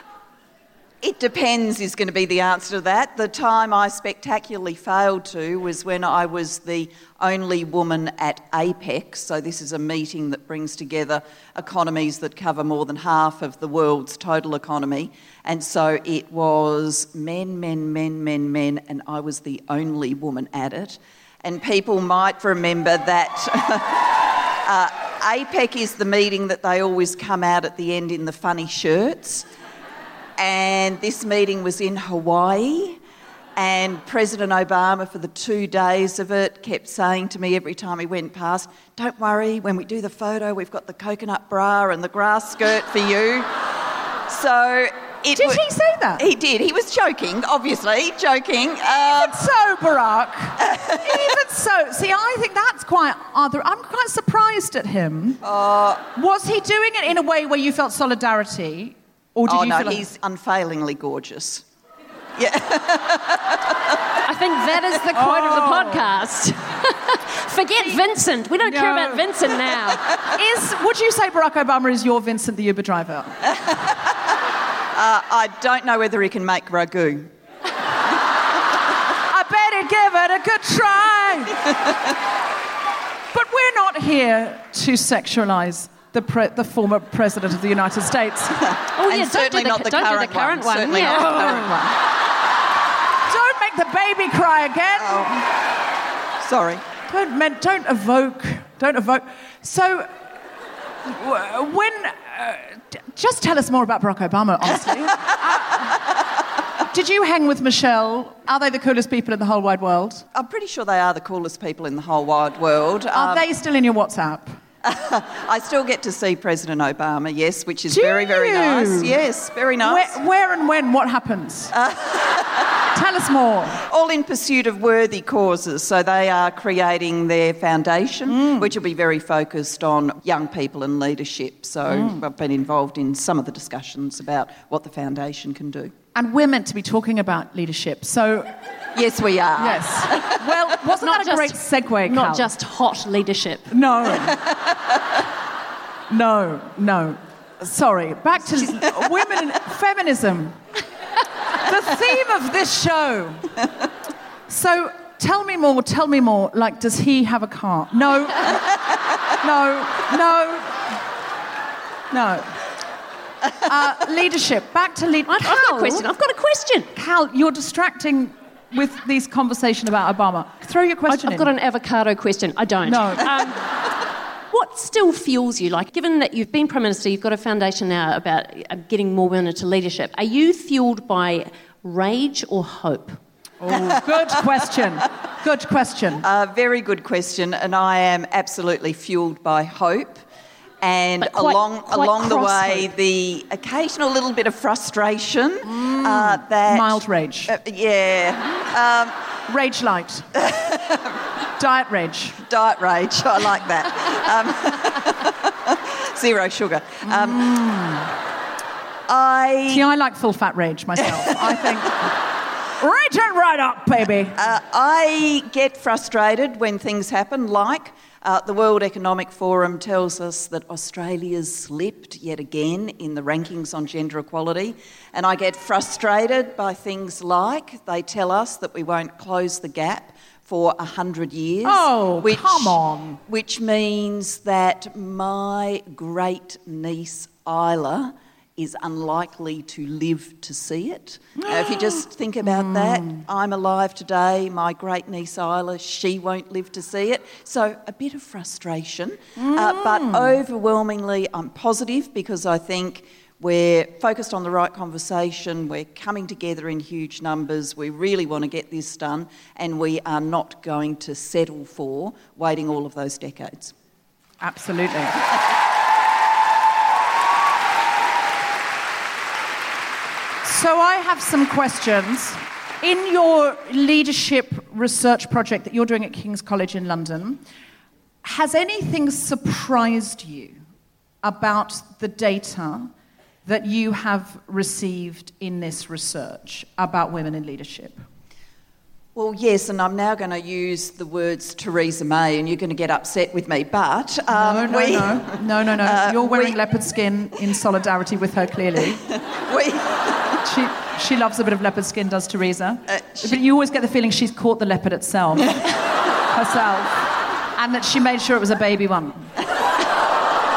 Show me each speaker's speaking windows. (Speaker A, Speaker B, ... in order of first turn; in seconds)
Speaker A: 1.0-29.5, 30.4-33.0, 33.5-43.6, 44.3-45.6, 46.2-49.4, 50.6-51.2, 55.4-56.0, 59.5-61.6, 62.4-63.6, 73.5-74.1, 74.9-77.3, 88.6-91.9, 95.0-95.4, 96.4-96.8, 110.3-113.5, 114.8-120.2, 121.7-122.6, 123.8-135.9, 138.9-140.5, 144.2-144.9, 186.2-190.2, 190.8-199.1, 200.4-201.2, 202.4-207.4, 209.1-209.8, 214.4-263.7, 289.1-296.6, 299.1-300.2, 302.9-303.4
Speaker B: 45.3-46.3, 48.9-55.4, 56.1-60.0, 65.1-66.1, 68.6-69.6, 70.3-73.4, 79.3-81.6, 83.3-88.6, 93.3-95.5, 97.1-100.1, 101.0-106.0, 106.8-110.2, 113.1-114.6, 117.9-119.2, 119.8-121.7, 122.9-123.8, 128.2-128.7, 131.9-132.2, 136.1-138.5, 139.6-142.5, 143.7-144.4, 146.1-150.6, 151.6-153.5, 154.5-158.6, 159.4-161.0, 162.1-162.6, 163.6-166.1, 166.9-171.5, 172.8-173.5, 183.6-186.2, 195.6-197.5, 199.5-200.3, 201.6-202.4, 207.0-208.1, 209.7-212.1, 212.8-214.4, 231.6-233.2, 241.4-243.2, 249.3-250.4, 264.4-265.2, 270.4-277.4, 278.2-280.6, 281.2-282.9, 283.4-288.0, 294.3-299.0, 300.4-305.6, 306.3-309.3
Speaker C: 64.2-70.0, 88.9-91.8, 141.0-143.7, 165.3-166.9, 171.1-173.7, 174.5-183.2, 191.2-192.9